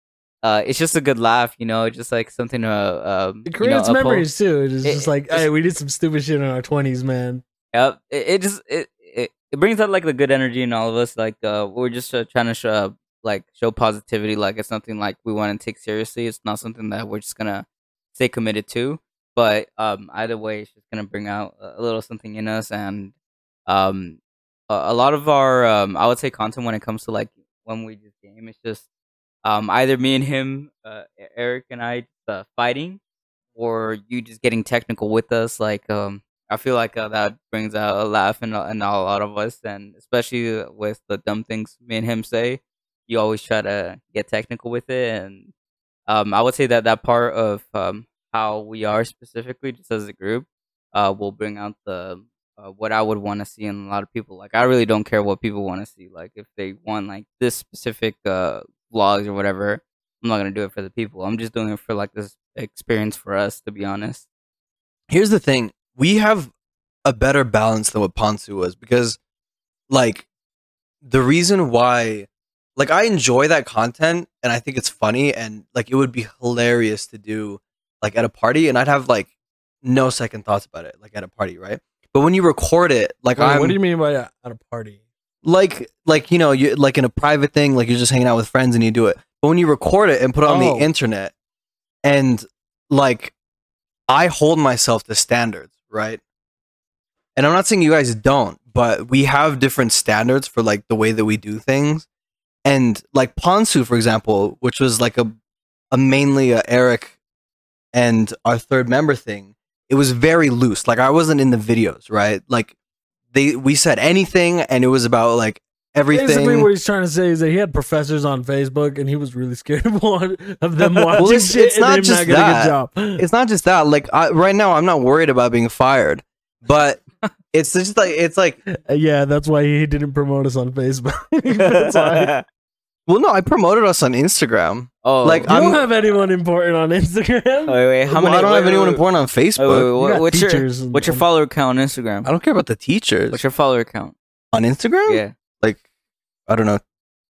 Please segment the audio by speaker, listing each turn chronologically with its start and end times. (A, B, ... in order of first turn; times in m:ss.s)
0:00.4-0:04.3 A
0:03.5-0:07.4 B
0:04.8-0:05.5 A
0:07.7-0:23.1 A
0:23.7-0:28.9 A
0:29.4-0:33.0 A
0:33.6-0:45.5 A
0:46.1-1:04.3 A
1:05.1-1:06.5 C
1:07.0-1:09.2 C
1:09.9-1:10.3 C
1:11.0-1:19.3 C
1:19.8-1:23.8 C
1:23.4-1:25.0 B
1:25.4-1:31.3 C
1:30.5-1:30.9 B
1:32.0-1:33.3 C
1:34.1-1:36.2 C
1:37.4-1:42.1 C
1:42.6-1:45.3 C
1:45.9-1:47.2 C
1:47.9-1:52.7 C
1:53.3-1:56.7 C
1:56.1-2:03.2 B
2:00.8-2:01.2 A
2:01.2-2:07.0 C
2:07.5-2:08.6 C
2:08.7-2:12.3 B
2:11.6-2:12.4 A
2:13.1-2:15.8 C
2:15.0-2:15.5 A
2:15.5-2:17.8 B
2:17.7-2:19.0 A
2:18.1-2:19.9 C
2:19.6-2:22.3 A
2:20.0-2:21.2 B
2:22.2-2:23.4 C
2:23.3-2:24.2 A
2:24.5-2:25.8 C
2:25.1-2:25.3 A
2:26.5-2:26.8 C